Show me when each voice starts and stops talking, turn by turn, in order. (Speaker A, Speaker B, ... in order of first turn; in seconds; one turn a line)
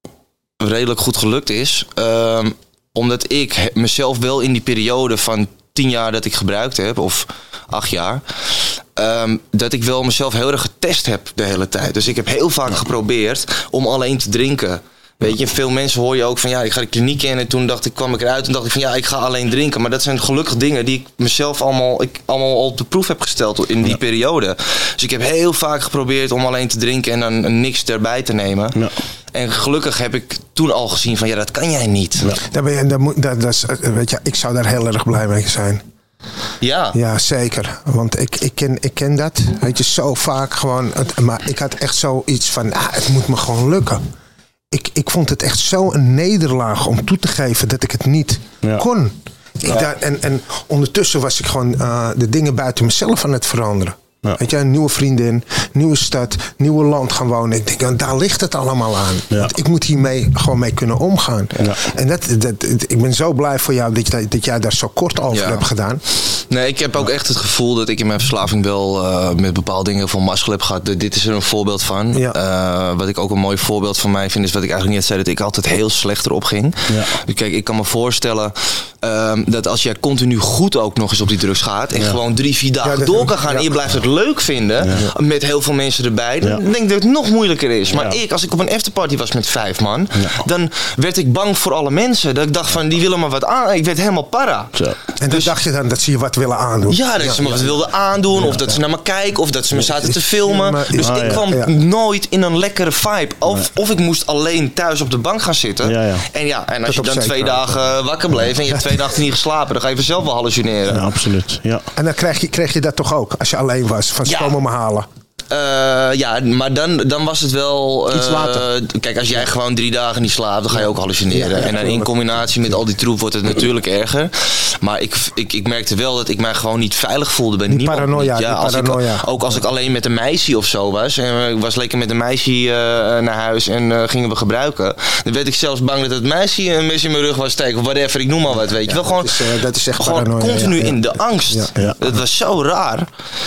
Speaker A: 0.6-32.3
Speaker B: 32.4-35.8
Speaker A: 36.6-37.0
Speaker B: 36.9-44.0
Speaker B: 44.7-66.0
Speaker A: 65.3-65.6
Speaker A: 66.5-94.8
Speaker C: 76.9-77.2
Speaker B: 82.8-83.8
Speaker C: 87.9-88.2
Speaker C: 90.2-90.4
Speaker B: 95.2-97.8
Speaker A: 95.3-95.5
Speaker A: 96.9-111.1
Speaker B: 98.5-98.7
Speaker B: 99.8-101.7
Speaker C: 101.0-101.4
Speaker C: 105.8-106.2
Speaker B: 106.9-107.8
Speaker C: 110.9-111.9
Speaker B: 112.0-115.1
Speaker A: 114.3-114.6
Speaker A: 115.5-143.1
Speaker B: 118.1-118.6
Speaker B: 121.3-122.1
Speaker B: 127.7-129.3
Speaker B: 138.9-141.7